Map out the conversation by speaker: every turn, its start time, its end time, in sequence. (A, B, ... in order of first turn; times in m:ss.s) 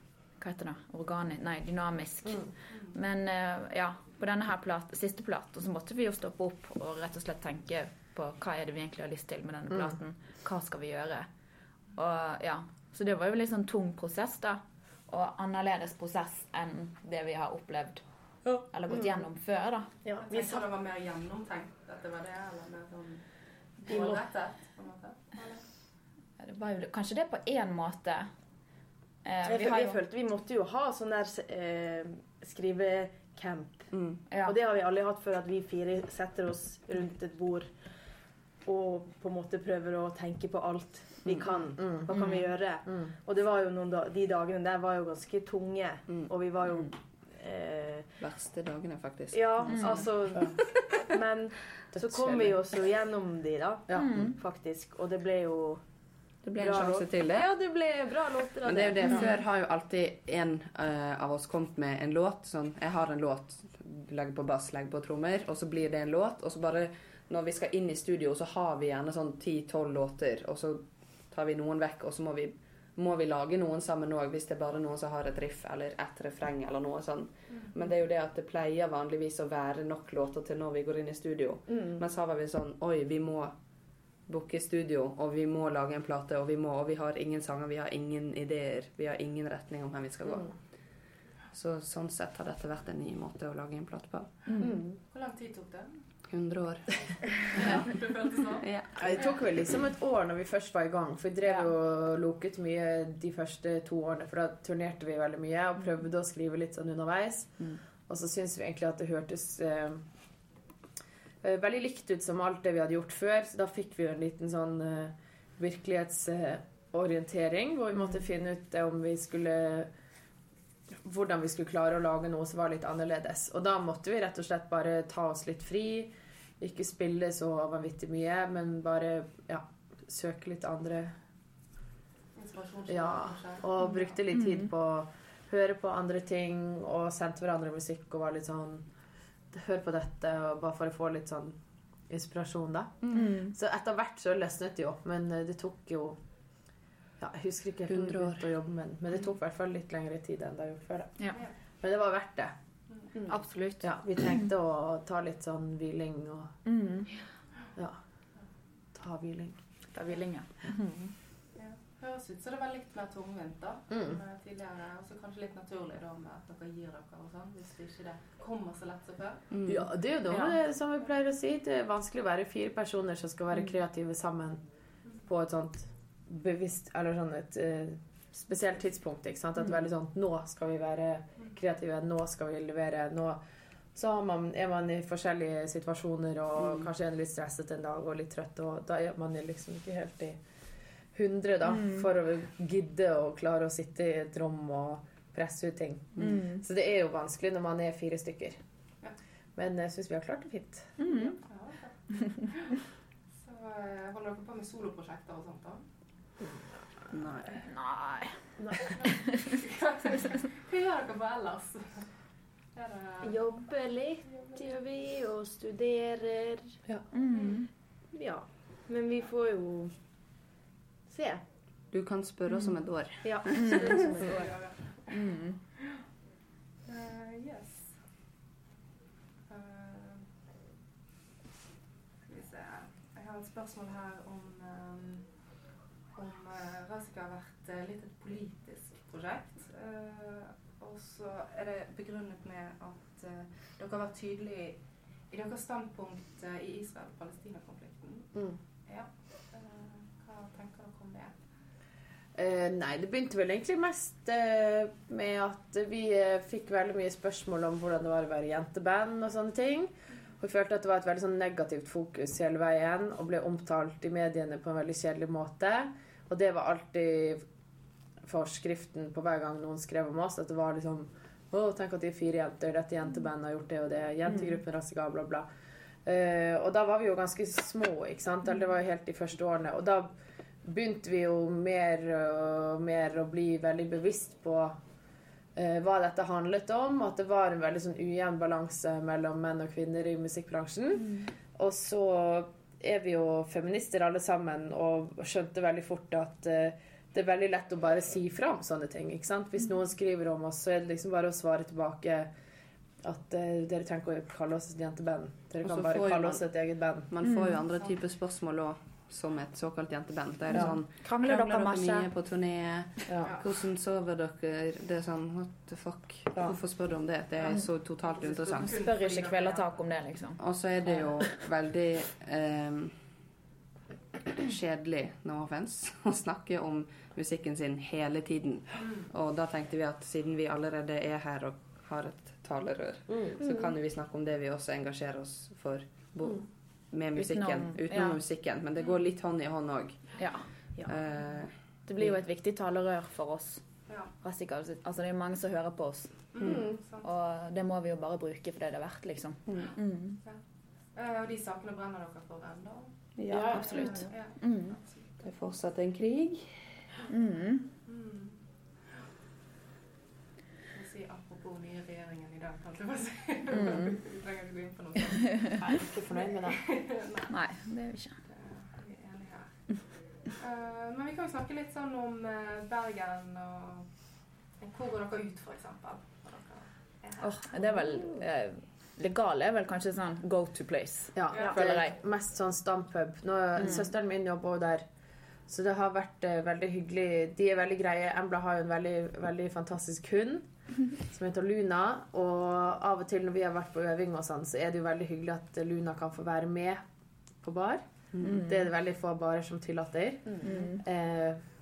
0:00.4-0:11.3 A
0:12.0-0:18.0 A
0:18.6-0:19.9 A
0:20.0-0:20.6 B
0:20.2-0:23.2 C
0:23.8-0:25.6 C
0:23.9-0:24.2 B
0:26.4-0:28.3 A
0:29.2-0:30.0 A
0:29.4-0:37.7 B
0:33.9-0:34.2 D
0:34.3-0:34.6 A
0:38.6-0:48.1 B
0:41.2-0:41.7 D
0:41.8-0:42.1 E
0:42.1-0:42.5 A
0:48.2-0:50.1 D
0:49.3-0:55.8 B
0:49.7-0:50.0 A
0:51.9-0:52.6 E
0:53.9-0:54.2 E
0:54.0-0:54.3 A
0:56.4-0:57.5 D
0:56.6-0:59.3 B
0:58.6-1:23.5 D
1:24.3-1:30.5 D
1:31.5-1:34.4 D
1:34.5-1:34.8 A
1:34.6-1:35.0 B
1:35.1-1:36.0 C
1:36.3-1:37.8 D
1:37.4-1:38.6 C
1:38.6-1:39.0 D
1:39.0-1:50.1 E
1:51.4-1:59.9 E
2:01.0-2:11.1 E
2:12.3-2:13.8 C
2:12.9-2:18.9 E
2:13.8-2:14.7 A
2:19.5-2:26.2 E
2:23.1-2:23.5 A
2:27.2-2:32.5 E
2:27.9-2:28.4 D
2:33.3-2:34.4 A
2:33.8-2:36.6 E
2:36.6-2:37.1 A
2:38.9-2:39.6 E
2:39.9-2:41.1 A
2:41.6-2:49.5 C
2:43.9-2:44.2 E
2:49.5-2:49.8 D
2:49.6-2:54.6 E
2:55.2-3:03.4 E
3:03.9-3:10.4 E
3:11.1-3:18.6 E
3:11.7-3:12.0 A
3:16.2-3:16.6 A
3:19.6-3:21.2 E
3:21.0-3:21.4 A
3:21.4-3:22.8 C
3:23.4-3:25.8 C
3:27.1-3:27.6 D
3:27.6-3:29.6 A
3:28.6-3:29.0 B
3:29.0-3:32.1 C
3:32.7-3:33.6 C
3:33.2-3:36.8 B
3:34.2-3:34.7 C
3:37.1-3:37.7 A
3:37.3-3:37.6 C
3:38.1-3:39.9 B
3:41.1-3:41.4 B
3:41.9-3:43.9 D
3:43.2-3:44.6 B
3:43.4-3:44.1 A
3:44.2-3:45.1 C
3:45.1-3:45.6 A
3:46.8-3:47.9 C
3:49.5-3:50.2 C
3:52.2-3:55.2 C
3:56.1-4:04.8 C
4:05.3-4:08.3 C
4:08.9-4:11.3 C
4:12.3-4:27.4 E
4:28.2-4:35.4 E
4:36.0-4:40.1 E
4:40.6-4:44.8 E
4:45.5-5:02.3 E
5:03.0-5:07.1 E
5:05.6-5:06.4 D
5:07.1-5:18.8 D
5:07.2-5:07.6 A
5:11.0-5:12.1 A
5:13.1-5:13.3 E
5:18.0-5:19.7 C
5:18.6-5:20.4 A
5:20.4-5:22.9 D
5:24.3-5:40.2 D
5:28.8-5:29.1 C
5:33.1-5:33.4 E
5:37.1-5:38.2 A
5:40.2-5:40.4 A
5:40.8-5:42.1 D
5:41.9-5:43.6 A
5:44.2-5:46.2 A
5:46.3-5:47.1 C
5:46.4-5:46.6 D
5:47.0-5:50.2 A
5:49.5-5:49.7 D
5:50.9-5:52.9 C
5:53.2-5:53.9 D
5:53.3-5:54.0 E
5:53.6-5:55.0 C
5:53.7-5:54.8 A
5:55.2-5:56.6 D
5:57.1-5:57.7 A
5:57.9-5:58.4 C
6:00.7-6:07.3 C
6:03.5-6:04.0 A
6:05.6-6:06.6 E
6:07.3-6:08.2 A
6:08.3-6:09.5 C
6:10.4-6:13.9 C
6:14.6-6:17.4 C
6:17.2-6:21.9 A
6:21.1-6:24.8 E
6:21.4-6:21.6 B
6:23.6-6:23.8 A
6:25.5-6:36.8 E
6:37.4-6:41.4 E
6:38.1-6:38.4 D
6:38.2-6:38.5 A
6:40.4-6:40.8 A